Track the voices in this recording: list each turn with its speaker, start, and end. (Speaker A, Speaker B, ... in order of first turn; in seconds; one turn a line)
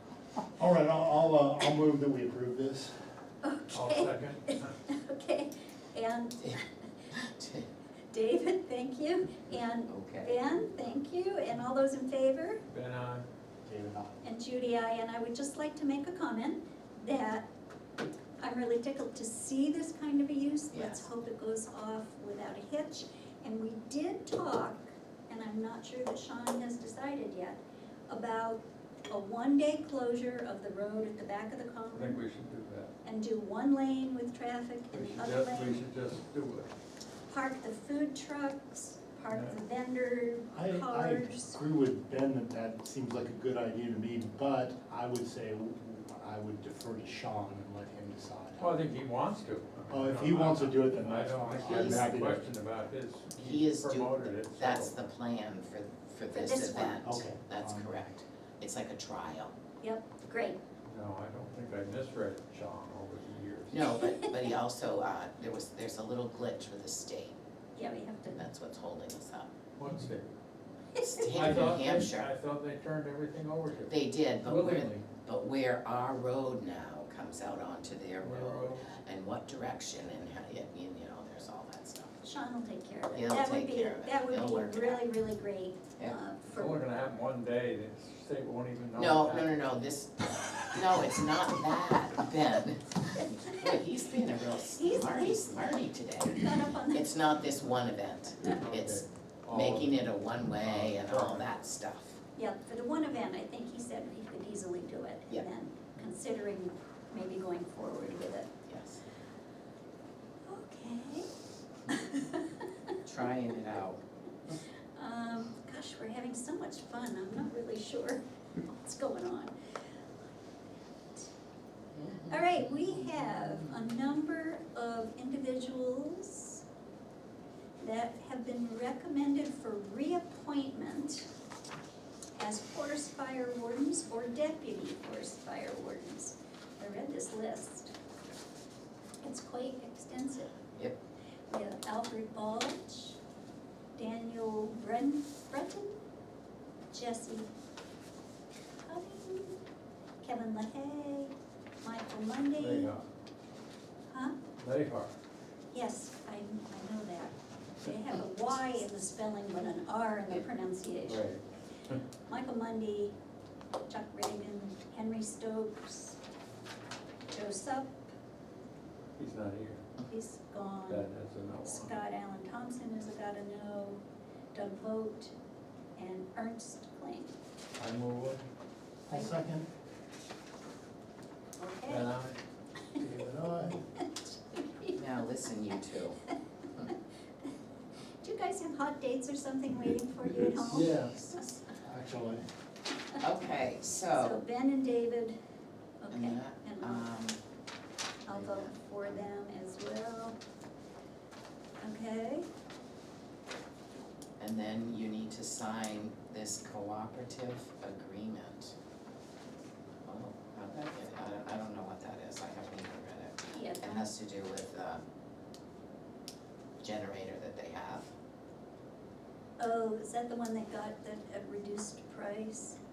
Speaker A: 0.6-2.9
Speaker B: 3.4-6.6
Speaker C: 3.7-4.7
Speaker D: 7.1-7.7
Speaker B: 8.1-12.6
Speaker D: 9.9-10.4
Speaker C: 12.7-13.2
Speaker A: 13.6-14.2
Speaker B: 14.2-17.5
Speaker B: 18.4-32.2
Speaker D: 20.7-21.1
Speaker C: 31.9-32.9
Speaker B: 33.0-35.8
Speaker C: 34.9-36.7
Speaker B: 37.3-41.6
Speaker C: 39.3-39.5
Speaker A: 40.5-48.7
Speaker C: 48.6-55.0
Speaker A: 49.9-52.4
Speaker D: 51.6-52.1
Speaker D: 53.3-59.5
Speaker B: 56.3-57.0
Speaker A: 57.0-57.9
Speaker B: 59.8-60.6
Speaker C: 60.8-64.0
Speaker D: 63.7-67.4
Speaker B: 67.7-68.4
Speaker D: 68.3-69.5
Speaker C: 69.8-70.3
Speaker B: 71.0-71.4
Speaker D: 71.0-72.3
Speaker C: 71.3-75.0
Speaker D: 73.9-82.2
Speaker C: 78.2-78.8
Speaker B: 82.2-86.8
Speaker D: 83.1-85.0
Speaker C: 86.5-89.6
Speaker D: 88.9-102.2
Speaker B: 94.8-95.7
Speaker B: 96.3-97.2
Speaker C: 98.4-100.0
Speaker C: 100.6-101.5
Speaker B: 102.3-108.5
Speaker D: 108.7-109.0
Speaker B: 110.5-111.3
Speaker B: 111.9-112.7
Speaker D: 113.0-114.0
Speaker B: 114.9-119.5
Speaker D: 121.9-122.3
Speaker B: 122.3-126.6
Speaker B: 127.8-131.3
Speaker B: 132.4-137.9
Speaker B: 139.2-140.6
Speaker B: 141.5-143.2
Speaker B: 143.9-145.9
Speaker B: 146.9-147.5
Speaker B: 148.8-149.6
Speaker B: 150.2-152.9
Speaker C: 152.6-153.1
Speaker B: 154.1-154.3
Speaker C: 154.6-155.1
Speaker B: 155.7-161.3
Speaker C: 161.1-162.0
Speaker B: 162.3-163.1
Speaker B: 163.9-166.2
Speaker B: 167.3-167.9
Speaker C: 169.2-169.8
Speaker B: 170.1-174.0
Speaker C: 170.9-171.9
Speaker B: 174.5-175.3
Speaker B: 176.0-177.3
Speaker C: 177.8-178.4
Speaker A: 179.1-179.7
Speaker B: 181.6-182.1
Speaker C: 181.9-182.3
Speaker A: 183.0-183.8
Speaker B: 183.9-185.0
Speaker D: 184.9-186.2
Speaker B: 188.2-191.6
Speaker C: 190.6-191.1
Speaker A: 191.8-192.4
Speaker D: 193.2-194.4
Speaker B: 194.1-195.3
Speaker B: 196.0-197.1
Speaker D: 196.1-197.4
Speaker B: 198.2-200.3
Speaker D: 198.3-199.2
Speaker B: 201.8-202.4
Speaker D: 204.4-208.7
Speaker D: 210.0-215.0
Speaker B: 213.5-214.1
Speaker D: 216.8-218.1
Speaker B: 219.6-222.8